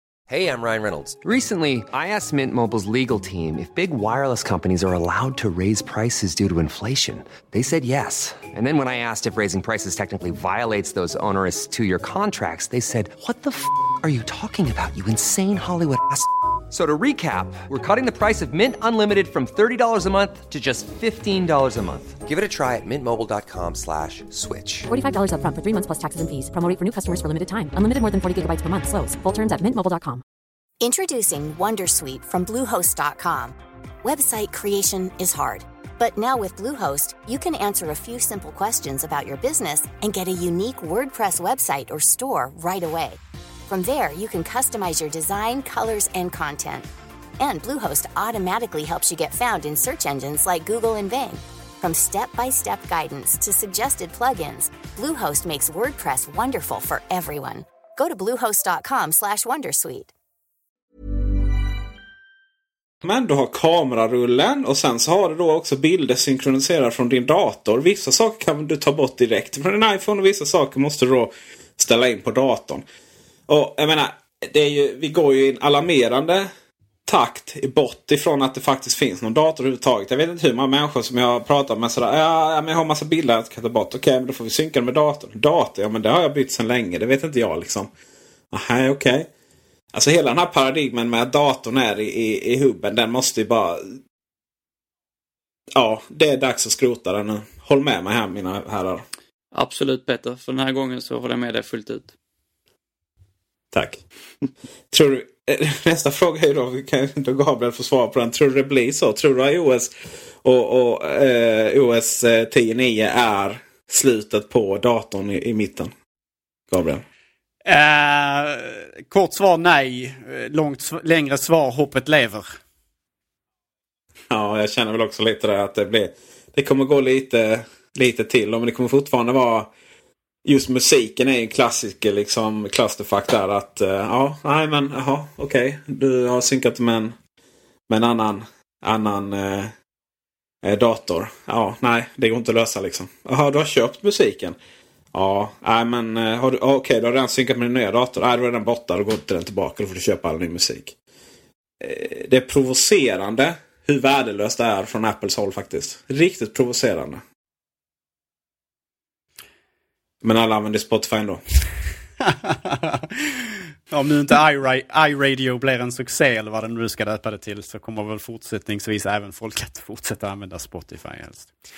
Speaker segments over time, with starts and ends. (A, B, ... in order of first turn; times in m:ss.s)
0:00.3-0:24.9 A
0:24.9-0:30.2 B
0:30.8-0:46.9 C
0:47.4-1:00.1 C
1:03.0-1:12.8 D
1:13.5-1:16.5 D
1:17.1-1:27.9 D
1:28.5-1:29.3 D
1:29.9-1:34.0 D
1:35.8-1:39.0 D
1:39.5-1:42.1 E
1:43.7-1:44.0 D
1:44.9-1:49.9 D
1:50.4-1:55.9 D
1:56.7-1:57.0 D
1:57.6-2:02.5 F
2:04.3-2:09.7 D
2:10.4-2:17.1 D
2:17.9-2:19.7 D
2:20.6-2:24.6 D
2:25.1-2:30.9 D
2:31.8-2:37.2 D
2:40.2-2:41.4 D
2:42.2-2:51.5 F